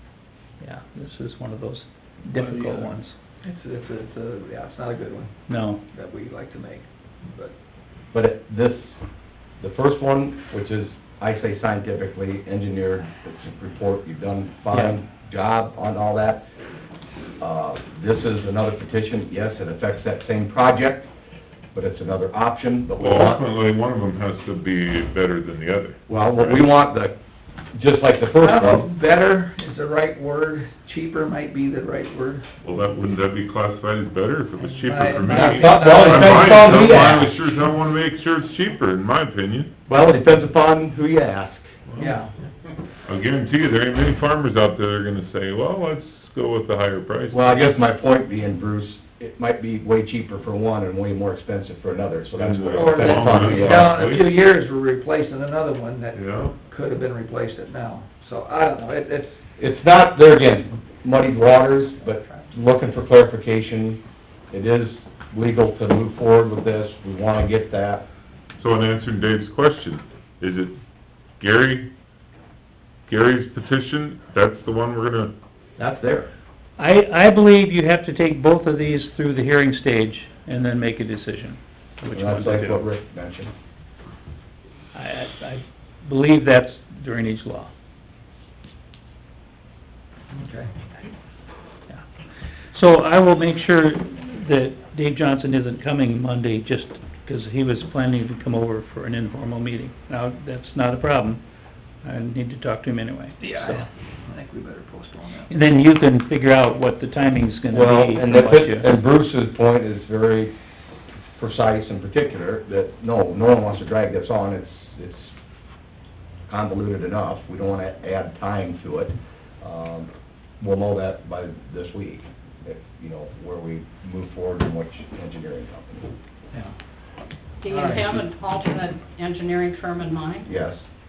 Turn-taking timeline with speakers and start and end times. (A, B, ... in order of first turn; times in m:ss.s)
0:00.6-0:03.2 A
0:02.3-0:05.4 B
0:05.5-0:05.8 A
0:05.9-0:07.5 B
0:08.1-0:09.0 C
0:09.6-0:16.5 C
0:14.7-0:15.0 A
0:17.4-0:21.1 C
0:21.7-0:23.4 C
0:23.0-0:26.6 D
0:26.1-0:27.2 C
0:27.7-0:28.9 C
0:28.4-0:32.4 B
0:32.6-0:39.7 D
0:34.8-0:36.7 B
0:35.3-0:37.4 C
0:39.9-0:41.7 C
0:41.9-0:42.2 D
0:42.0-0:42.3 B
0:43.1-0:47.6 D
0:47.3-0:54.0 C
0:52.4-0:54.3 D
0:52.7-0:59.4 B
0:56.1-0:56.6 D
0:59.6-1:08.1 C
1:08.6-1:10.8 D
1:11.4-1:11.9 D
1:13.1-1:15.4 D
1:15.8-1:16.3 C
1:16.8-1:22.8 A
1:22.1-1:23.5 C
1:24.9-1:27.7 A
1:30.3-1:30.7 B
1:32.7-1:41.4 A
1:42.0-1:43.9 A
1:43.4-1:45.5 B
1:45.5-1:48.9 A
1:47.7-1:50.5 C
1:51.4-1:55.4 C
1:56.5-2:06.1 C
2:07.6-2:10.5 E
2:07.7-2:08.3 B
2:10.5-2:10.8 C